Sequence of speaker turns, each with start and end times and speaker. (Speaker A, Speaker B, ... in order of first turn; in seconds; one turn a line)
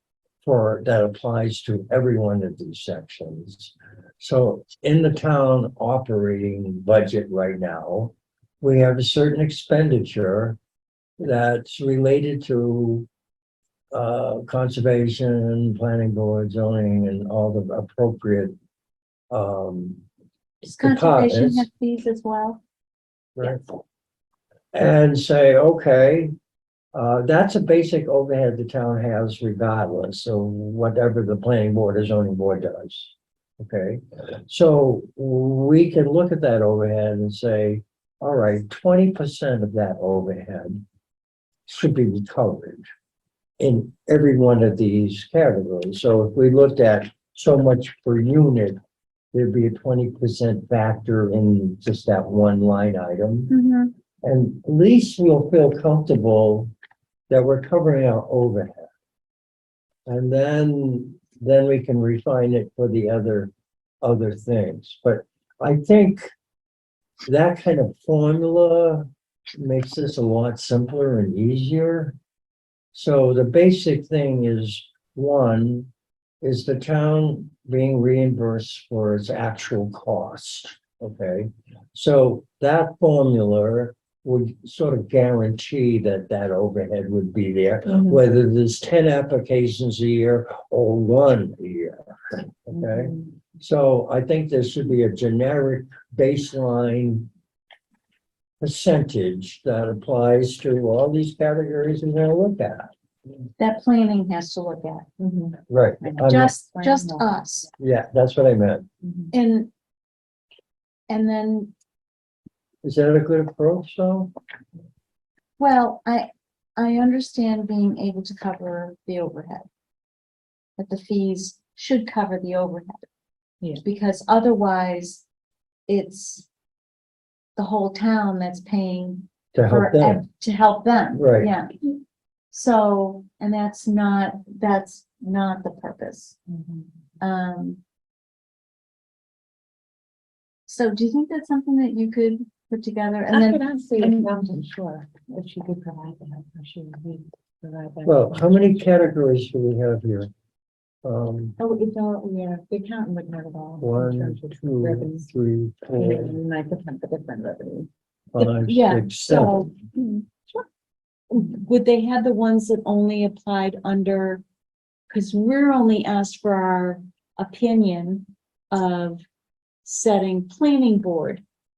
Speaker A: 0.4-10.6
Speaker A: 11.2-13.1
Speaker A: 13.9-18.5
Speaker A: 19.3-20.0
Speaker B: 20.6-22.6
Speaker A: 20.8-21.7
Speaker A: 23.4-23.6
Speaker A: 24.7-26.3
Speaker A: 26.9-40.8
Speaker A: 41.7-42.8
Speaker A: 43.6-48.8
Speaker A: 49.3-53.5
Speaker B: 53.5-53.9
Speaker A: 54.2-56.7
Speaker A: 57.3-58.9
Speaker A: 60.1-63.5
Speaker A: 64.0-66.3
Speaker A: 67.2-72.1
Speaker A: 72.9-75.9
Speaker A: 76.4-97.3
Speaker C: 92.8-93.2
Speaker A: 98.6-102.9
Speaker B: 103.6-105.1
Speaker C: 105.2-107.5
Speaker A: 105.7-106.5
Speaker B: 106.2-107.7
Speaker A: 107.8-108.9
Speaker C: 109.0-109.3
Speaker B: 109.3-109.7
Speaker B: 111.1-111.7
Speaker A: 112.8-114.3
Speaker B: 115.6-119.7
Speaker B: 120.8-123.1
Speaker B: 123.8-125.2
Speaker B: 125.9-126.5
Speaker B: 127.5-132.0
Speaker A: 129.5-130.2
Speaker A: 131.2-131.5
Speaker B: 132.5-136.4
Speaker C: 136.5-136.9
Speaker B: 137.2-137.8
Speaker B: 140.7-144.3
Speaker C: 143.3-148.8
Speaker A: 148.1-150.3
Speaker A: 151.0-151.6
Speaker C: 151.6-155.3
Speaker A: 153.8-156.3
Speaker C: 155.9-157.9
Speaker A: 158.3-159.7
Speaker B: 158.4-160.0
Speaker B: 161.3-164.4
Speaker B: 165.1-169.2
Speaker B: 169.8-171.4